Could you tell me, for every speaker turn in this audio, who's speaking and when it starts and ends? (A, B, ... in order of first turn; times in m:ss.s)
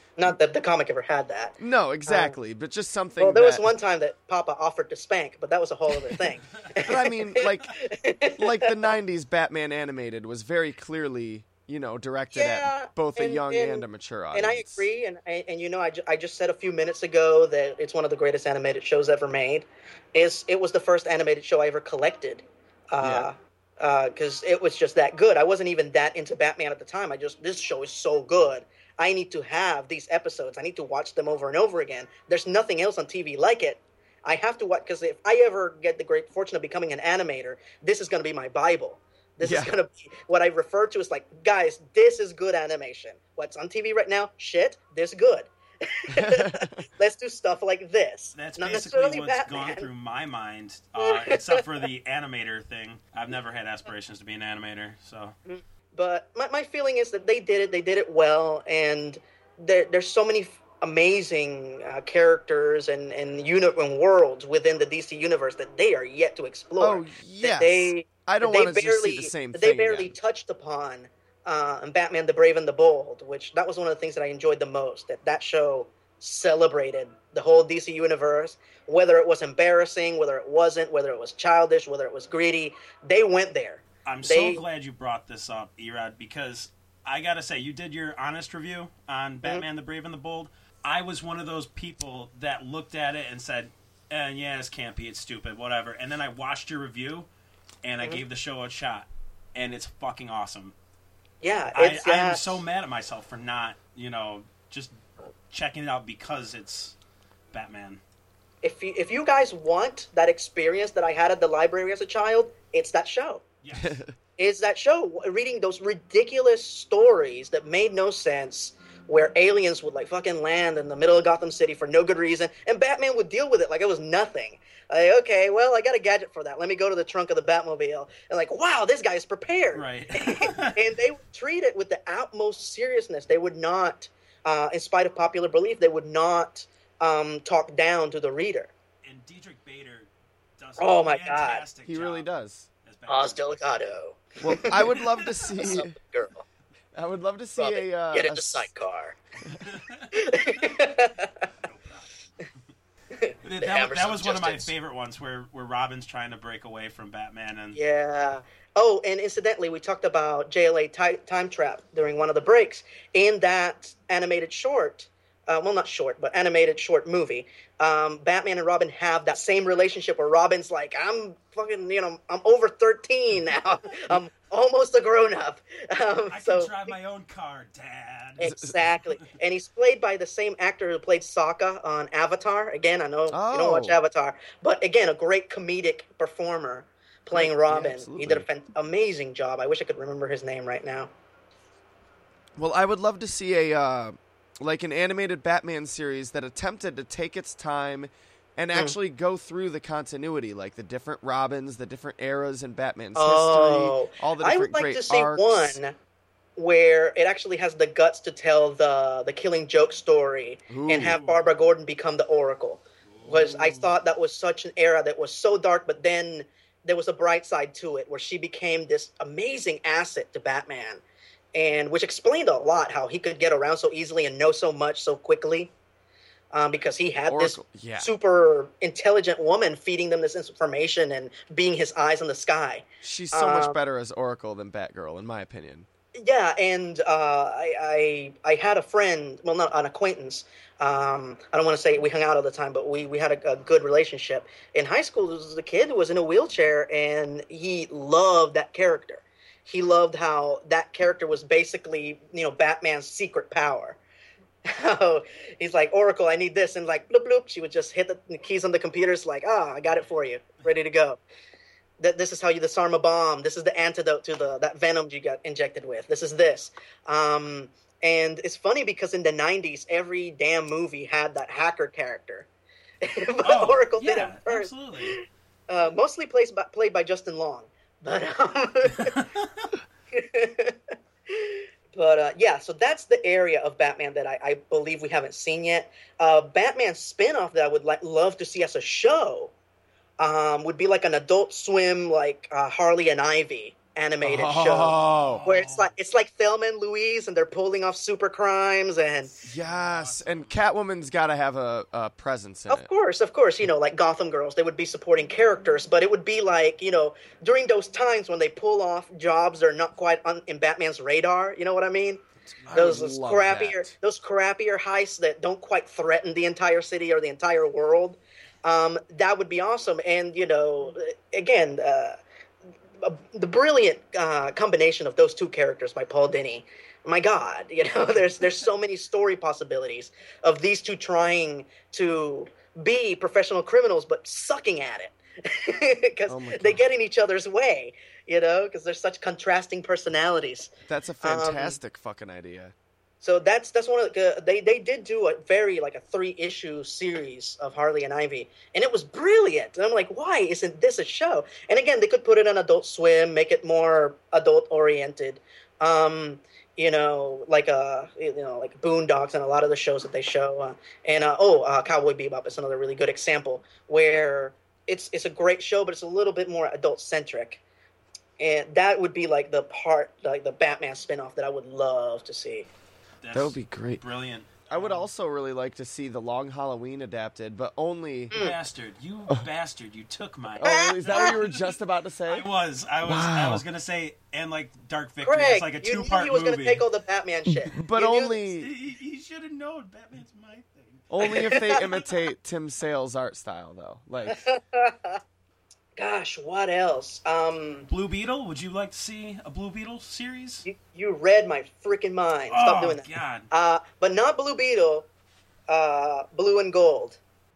0:00.2-0:02.4 A
0:01.6-0:03.7 B
0:03.2-0:08.9 A
0:06.8-0:07.7 B
0:08.4-0:14.8 B
0:12.3-0:49.9 A
0:23.0-0:23.3 B
0:39.4-0:39.7 B
0:46.1-0:46.8 B
0:48.4-0:55.4 C
0:51.0-0:51.6 A
0:55.4-1:24.6 A
1:06.8-1:10.1 B
1:24.1-1:37.3 C
1:37.8-1:40.8 C
1:41.4-1:42.6 A
1:41.7-1:45.0 C
1:45.5-1:47.0 C
1:47.5-1:48.0 C
1:48.6-1:53.4 A
1:53.6-1:54.0 C
1:53.8-1:54.1 B
1:54.4-2:18.7 A
2:09.7-2:10.8 C
2:19.0-2:22.3 C
2:20.8-2:21.6 A
2:21.9-2:22.7 B
2:22.8-2:23.5 C
2:23.1-2:26.4 A
2:24.4-2:26.0 B
2:25.0-2:25.5 C
2:26.9-2:28.7 B
2:27.6-2:29.2 A
2:29.6-2:30.8 C
2:30.1-2:31.5 A
2:31.6-2:32.1 C
2:33.1-2:34.7 A
2:33.4-2:37.8 C
2:37.8-2:56.9 A
2:56.3-2:58.4 C
2:58.4-3:11.1 A
2:58.4-2:58.8 B
3:03.3-3:04.0 B
3:07.3-3:08.4 B
3:12.6-3:25.8 B
3:23.1-3:25.9 A
3:26.6-3:41.0 A
3:30.7-3:31.2 B
3:31.0-3:31.4 C
3:33.1-3:33.9 C
3:41.6-3:45.7 A
3:46.5-3:53.8 A
3:47.3-3:48.1 B
3:53.0-3:55.9 B
3:56.2-4:14.0 A
4:14.7-4:21.2 A
4:22.0-4:32.5 A
4:33.0-4:39.2 A
4:33.4-4:35.2 C
4:39.0-4:39.4 C
4:40.1-4:40.8 A
4:41.3-4:49.5 A
4:50.2-4:59.3 A
4:54.2-4:55.5 B
4:54.9-4:55.9 C
4:59.4-5:00.5 C
4:59.4-5:02.9 B
5:02.7-5:22.2 A
5:12.6-5:14.0 B
5:12.6-5:13.0 C
5:23.0-5:41.8 A
5:36.3-5:36.8 B
5:40.9-5:42.7 B
5:43.2-6:07.6 A
6:08.4-6:12.7 A
6:13.2-6:15.1 C
6:13.3-6:14.0 B
6:14.7-6:18.3 B
6:18.3-6:21.8 C
6:20.6-6:22.5 B
6:20.6-6:21.4 A
6:22.3-6:26.8 C
6:23.0-6:23.6 B
6:25.2-6:28.4 A
6:27.5-6:28.7 B
6:28.6-6:31.8 C
6:31.1-6:34.4 B
6:31.2-6:31.8 A
6:34.3-6:35.2 A
6:36.0-6:37.9 A
6:37.9-6:40.7 C
6:40.6-6:45.1 A
6:42.5-6:43.5 C
6:45.7-6:47.2 A